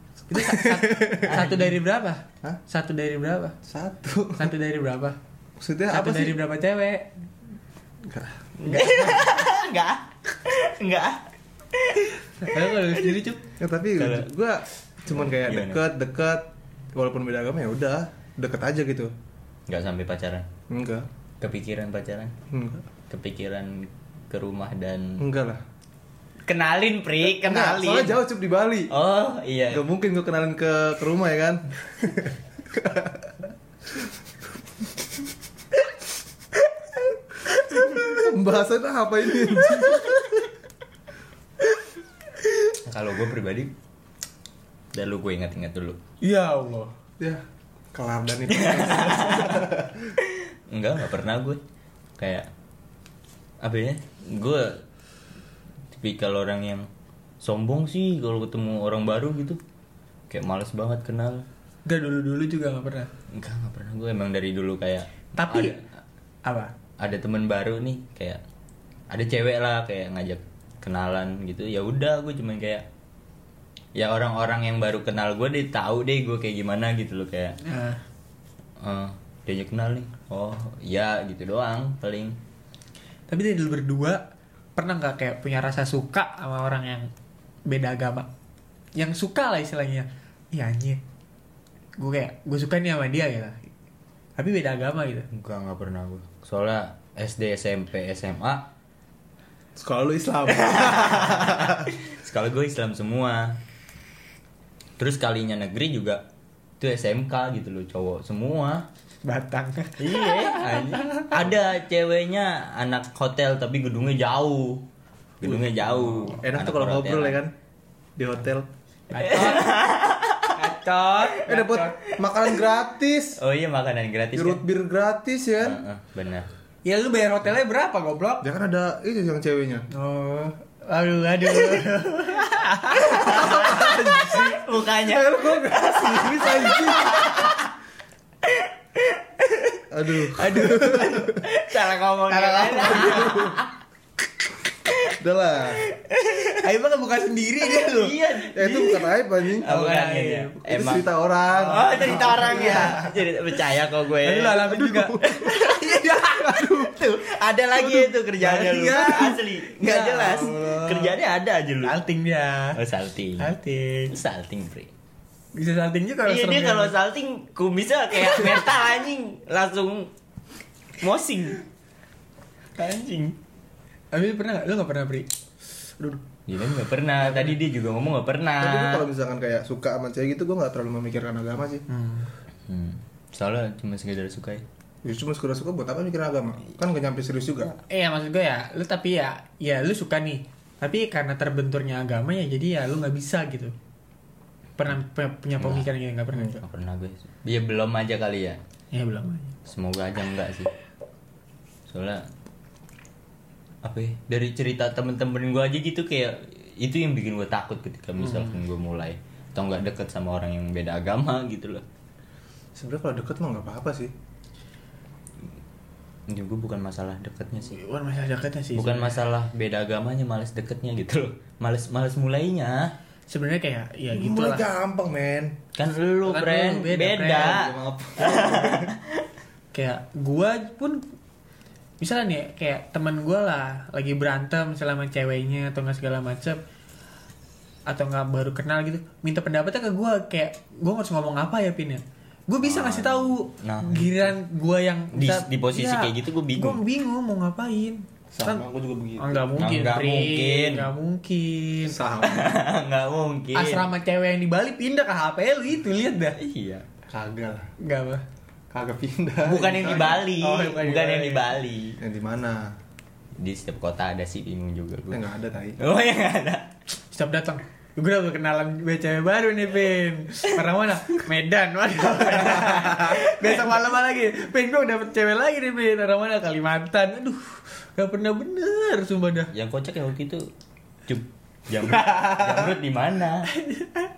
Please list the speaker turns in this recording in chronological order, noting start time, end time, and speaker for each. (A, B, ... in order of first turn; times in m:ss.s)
0:00.3-0:03.6 A
0:00.3-0:01.4 B
0:01.3-0:01.6 C
0:03.6-0:04.5 B
0:04.4-0:05.2 A
0:05.6-0:06.4 B
0:05.9-0:07.1 A
0:08.0-0:08.5 B
0:08.6-0:13.2 C
0:08.6-0:09.3 A
0:12.2-0:13.4 A
0:13.6-0:19.1 B
0:14.0-0:14.3 C
0:15.1-0:15.8 C
0:19.7-0:20.4 C
0:20.7-0:21.1 B
0:21.4-0:22.3 C
0:22.5-0:22.8 B
0:23.1-0:25.2 C
0:25.2-0:25.6 B
0:26.5-0:28.2 C
0:27.3-0:28.9 B
0:28.9-0:29.8 C
0:29.7-0:33.4 B
0:37.4-0:38.3 A
0:38.0-0:40.2 B
0:39.6-0:40.4 A
0:42.8-0:43.7 C
0:44.9-0:46.0 C
0:46.2-0:46.9 A
0:47.2-0:50.2 B
0:48.5-0:49.6 C
0:50.2-0:51.6 C
0:52.2-0:52.5 C
0:53.6-0:54.8 C
0:55.9-0:56.9 C
0:57.4-0:59.6 C
1:00.3-1:01.4 C
1:01.8-1:03.1 A
1:03.3-1:05.8 C
1:05.4-1:05.8 A
1:06.4-1:06.7 A
1:07.0-1:08.4 C
1:09.1-1:12.8 C
1:14.0-1:17.6 C
1:17.6-1:18.0 A
1:18.8-1:22.4 C
1:23.3-1:24.2 A
1:24.8-1:27.1 A
1:27.7-1:28.3 A
1:29.0-1:31.0 A
1:32.0-1:33.7 A
1:34.4-1:35.3 A
1:35.3-1:38.7 C
1:39.8-1:41.9 B
1:40.5-1:43.6 C
1:45.0-1:46.2 C
1:46.8-1:48.8 C
1:49.2-1:51.3 A
1:50.0-1:54.8 C
1:55.4-1:57.4 C
1:55.4-1:57.5 B
1:58.2-1:58.7 B
1:59.1-1:59.8 A
1:59.2-2:00.5 C
2:00.5-2:02.0 A
2:01.5-2:03.4 B
2:03.4-2:04.6 C
2:04.3-2:05.8 B
2:05.6-2:06.5 C
2:06.8-2:08.5 A
2:08.4-2:09.9 B
2:09.9-2:14.3 A
2:13.1-2:17.7 C
2:13.2-2:17.4 B
2:18.4-2:23.7 C
2:19.9-2:21.4 B
2:22.3-2:23.5 A
2:22.7-2:23.6 B
2:25.1-2:25.8 B
2:25.8-2:26.6 C
2:26.5-2:28.3 A
2:27.7-2:31.1 C
2:28.5-2:29.7 B
2:29.6-2:30.6 A
2:30.6-2:33.0 B
2:31.5-2:33.1 A
2:31.6-2:36.1 C
2:34.2-2:36.7 A
2:34.7-2:35.6 B
2:36.2-2:37.0 B
2:36.8-2:42.0 C
2:37.8-2:41.2 A
2:41.8-2:42.8 A
2:42.7-2:43.5 C
2:43.4-2:44.1 A
2:44.1-2:44.9 C
2:45.5-2:46.9 A
2:46.2-2:50.1 C
2:51.0-2:51.6 C
2:52.8-2:53.3 A
2:54.1-2:55.3 A
2:56.0-2:56.2 B
2:56.5-2:59.1 C
2:58.6-3:01.8 B
3:01.9-3:02.3 A
3:02.7-3:04.6 C
3:05.0-3:07.7 B
3:07.6-3:13.7 A
3:14.8-3:16.6 A
3:15.6-3:15.9 C
3:16.6-3:18.6 C
3:18.9-3:19.5 A
3:19.6-3:20.7 C
3:21.9-3:22.3 C
3:23.8-3:31.8 C
3:28.2-3:28.5 A
3:32.7-3:34.1 B
3:36.3-3:37.8 C
3:37.7-3:39.2 A
3:38.7-3:42.9 C
3:43.3-3:44.6 A
3:44.1-3:45.6 B
3:45.8-3:49.2 C
3:46.2-3:47.6 A
3:47.4-3:48.9 B
3:49.7-3:51.0 A
3:52.0-3:56.6 A
3:57.9-4:08.6 A
4:02.6-4:04.4 C
4:05.1-4:06.8 C
4:08.3-4:09.5 B
4:09.2-4:12.0 A
4:09.6-4:10.9 C
4:11.9-4:12.6 B
4:12.2-4:13.8 C
4:13.5-4:16.4 A
4:16.4-4:16.8 C
4:17.1-4:17.7 B
4:17.8-4:18.2 A
4:18.7-4:20.2 B
4:19.4-4:22.0 C
4:19.9-4:21.4 A
4:22.0-4:22.7 B
4:23.4-4:25.2 C
4:25.1-4:25.8 B
4:25.8-4:26.7 C
4:27.1-4:39.5 A
4:39.5-4:40.5 C
4:41.1-4:43.5 C
4:43.6-4:43.9 A